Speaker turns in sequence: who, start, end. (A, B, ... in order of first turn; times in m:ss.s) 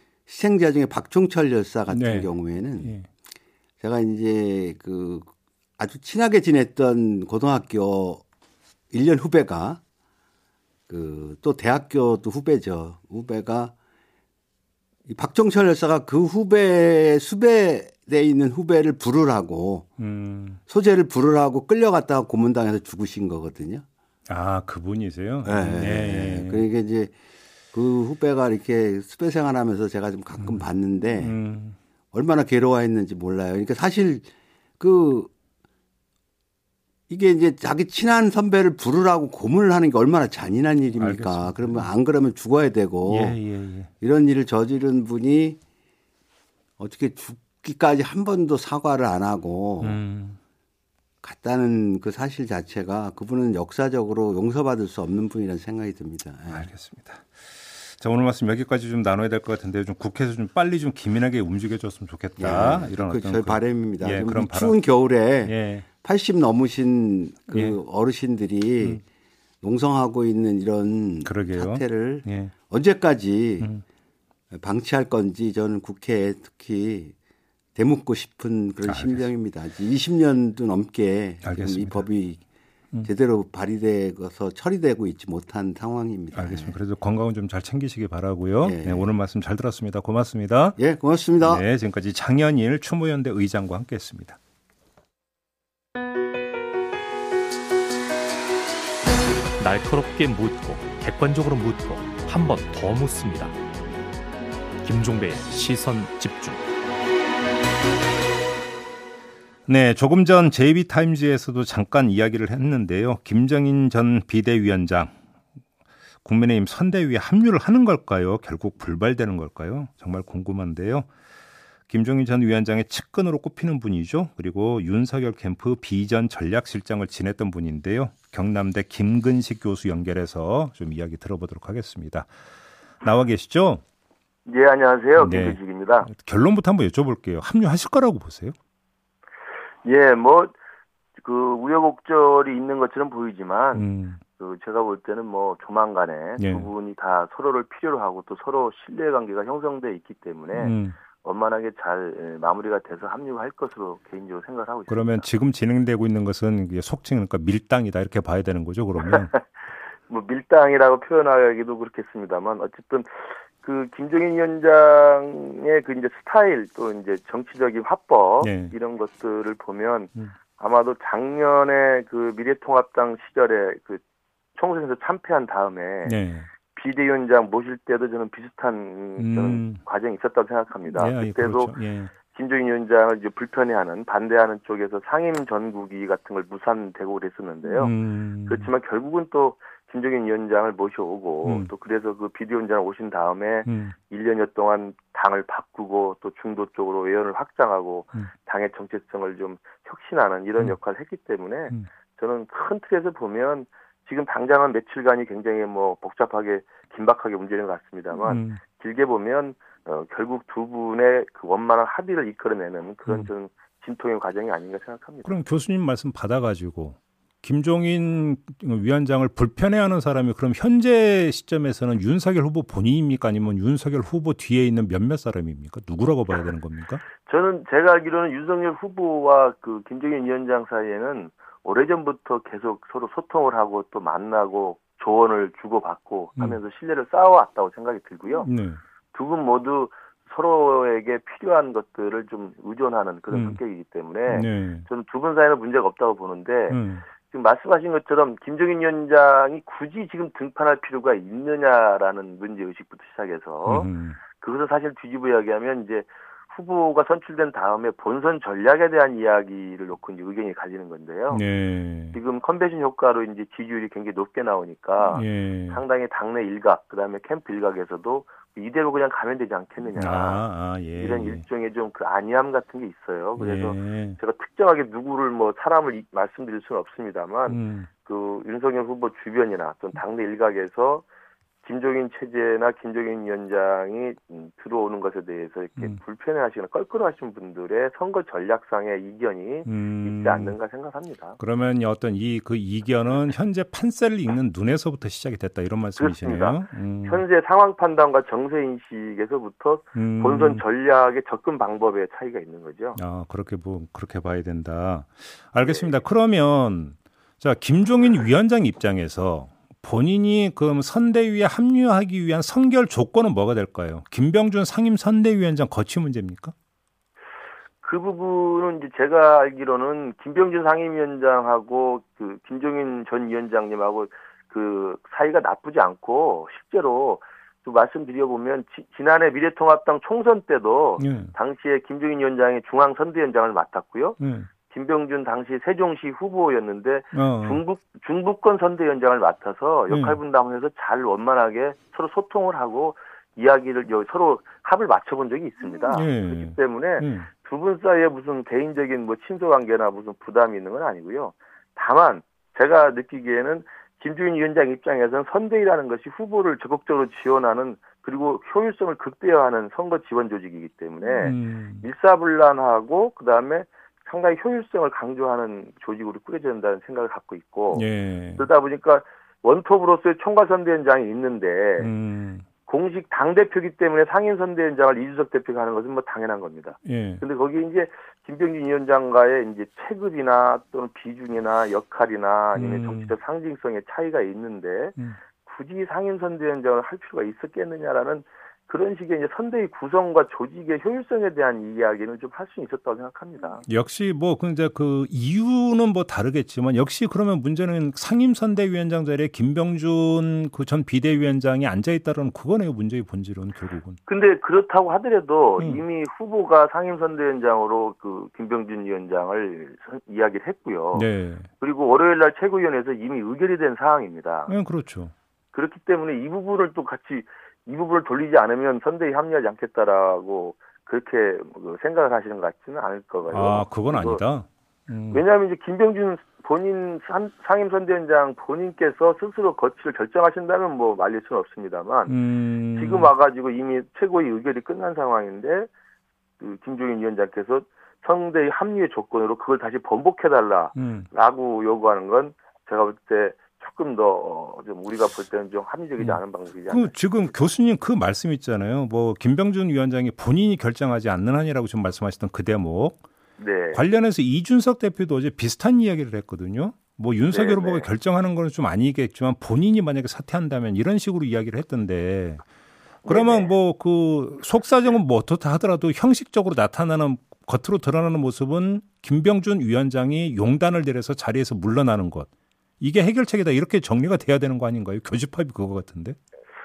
0:00.3-0:02.9 A
0:01.9-0:02.3 B
0:02.8-0:03.0 B
0:03.8-0:08.2 A
0:08.9-0:09.8 A
0:10.9-0:13.7 A
0:15.1-0:19.9 A
0:20.0-0:20.6 B
0:20.7-0:23.8 A
0:24.3-0:26.6 B
0:25.4-0:27.1 A
0:27.7-0:31.3 A
0:31.2-0:31.8 B
0:32.1-0:34.3 A
0:34.8-0:35.3 A
0:37.1-0:43.4 A
0:41.0-0:41.9 B
0:43.0-0:43.9 B
0:44.0-0:45.6 A
0:46.8-0:50.0 A
0:49.8-0:50.4 B
0:51.2-0:56.7 A
0:56.5-1:04.8 B
1:02.4-1:09.0 A
1:05.4-1:05.9 B
1:07.5-1:07.8 B
1:09.6-1:13.7 A
1:11.2-1:12.5 B
1:14.5-1:17.1 A
1:17.8-1:22.4 A
1:18.9-1:19.2 B
1:21.4-1:22.0 B
1:23.0-1:26.7 A
1:26.3-1:30.8 B
1:28.6-1:29.0 A
1:30.8-1:31.6 A
1:31.4-1:34.4 B
1:39.6-1:43.5 C
1:44.8-1:46.6 C
1:49.7-1:55.1 B
1:56.2-2:01.1 B
2:01.9-2:12.3 B
2:13.0-2:13.8 B
2:14.4-2:16.1 D
2:15.2-2:18.5 B
2:19.8-2:20.5 D
2:21.2-2:23.8 D
2:23.8-2:24.2 B
2:24.4-2:35.2 D
2:26.4-2:26.7 B
2:30.5-2:31.0 B
2:34.9-2:39.3 B
2:39.1-2:39.4 D
2:40.1-2:54.0 D
2:48.4-2:48.8 B
2:54.6-2:56.2 D
2:56.0-2:56.5 B
2:56.7-3:01.7 D
2:59.2-2:59.8 B
3:00.9-3:02.1 B
3:02.3-3:07.9 D
3:07.8-3:08.7 B
3:08.5-3:35.4 D
3:11.4-3:11.7 B
3:13.6-3:13.9 B
3:28.2-3:28.6 B
3:35.2-3:47.0 B
3:47.2-3:58.5 D
3:58.4-3:58.8 B
3:59.1-4:21.4 D
4:03.3-4:03.6 B
4:04.3-4:04.9 B
4:06.7-4:07.0 B
4:13.6-4:14.2 B
4:21.3-4:22.2 B
4:22.1-4:30.4 D
4:25.1-4:25.8 B
4:30.0-4:31.4 B
4:31.0-4:41.0 D
4:33.4-4:34.2 B
4:37.5-4:37.9 B
4:41.6-4:51.4 D
4:49.6-4:50.5 B
4:51.4-4:57.2 B
4:56.0-5:03.0 D
4:59.9-5:00.6 B
5:03.0-5:16.5 B
5:17.8-6:07.9 D
5:31.0-5:31.3 B
5:34.2-5:34.5 B
5:37.1-5:37.6 B
5:39.9-5:40.2 B
5:45.9-5:47.3 B
6:01.2-6:01.8 B
6:07.7-6:08.4 B
6:08.4-6:11.9 D
6:11.8-6:12.4 B
6:12.6-6:33.6 D
6:16.8-6:17.2 B
6:22.5-6:23.1 B
6:33.6-6:44.0 B
6:44.1-6:51.1 D
6:50.9-6:51.5 B
6:51.6-6:54.5 D
6:54.5-6:55.1 B
6:55.5-7:04.2 D
7:03.3-7:05.2 B
7:05.1-7:12.1 D
7:12.1-7:13.1 B
7:12.7-7:15.7 D
7:16.4-7:26.9 D
7:20.8-7:21.1 B
7:26.0-7:33.0 B
7:33.4-7:33.8 D
7:33.7-7:42.4 B
7:37.3-7:37.9 D
7:43.0-7:43.5 D
7:43.0-7:52.3 B
7:52.8-7:56.2 B